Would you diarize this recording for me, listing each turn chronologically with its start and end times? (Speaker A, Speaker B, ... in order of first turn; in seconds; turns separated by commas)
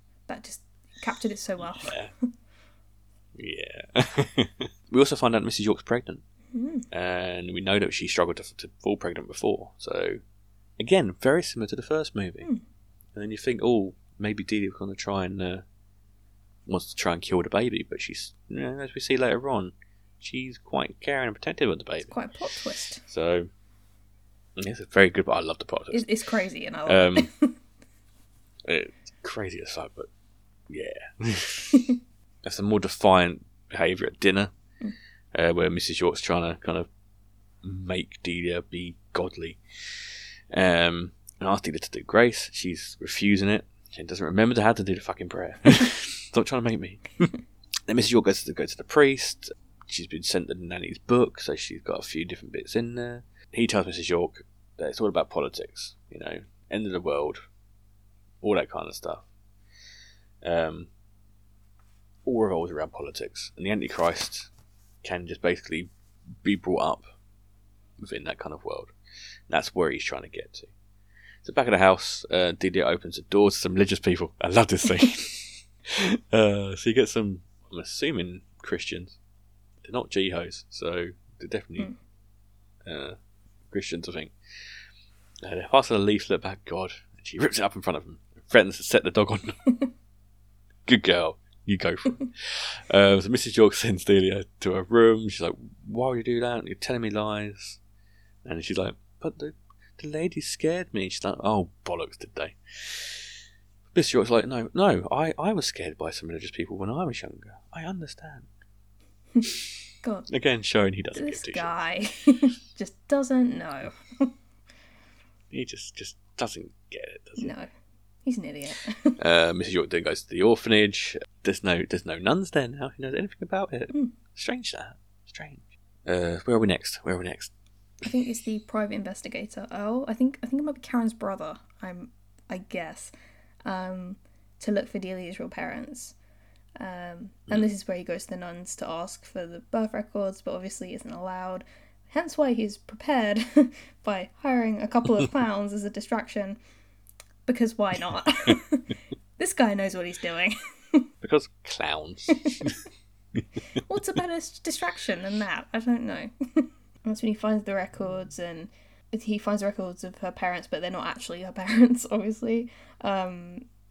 Speaker A: 0.3-2.3, Speaker B: 1.8-2.1, Speaker B: 3.4-6.2, Speaker A: 6.5-6.9, Speaker B: 6.9-10.2, Speaker B: 10.8-12.5, Speaker B: 13.2-15.7, Speaker B: 16.7-22.1, Speaker A: 22.1-23.0, Speaker B: 23.0-23.5, Speaker B: 24.6-26.1, Speaker A: 25.9-27.6, Speaker B: 26.9-27.3, Speaker B: 28.6-30.1, Speaker B: 30.7-31.9, Speaker B: 32.4-34.5, Speaker B: 35.3-36.9, Speaker B: 37.6-47.3, Speaker B: 47.9-57.4, Speaker B: 58.4-59.3, Speaker B: 60.4-60.9, Speaker B: 62.2-64.5, Speaker B: 65.0-65.9, Speaker B: 66.4-67.1, Speaker B: 68.0-68.9, Speaker B: 69.5-70.7, Speaker B: 71.4-79.2, Speaker B: 79.8-81.9, Speaker B: 82.8-83.2, Speaker B: 83.7-84.3, Speaker B: 85.4-89.6, Speaker B: 90.9-97.8, Speaker B: 98.4-103.3, Speaker B: 103.9-108.5, Speaker A: 110.0-110.3, Speaker B: 110.3-111.7, Speaker A: 111.2-114.3, Speaker B: 115.5-117.5, Speaker A: 117.4-117.7, Speaker A: 118.2-119.2, Speaker B: 119.2-127.5, Speaker A: 128.0-133.1, Speaker A: 133.7-136.2, Speaker A: 136.8-146.6, Speaker A: 147.5-151.1, Speaker B: 151.2-152.8, Speaker A: 152.3-152.8, Speaker A: 153.9-163.7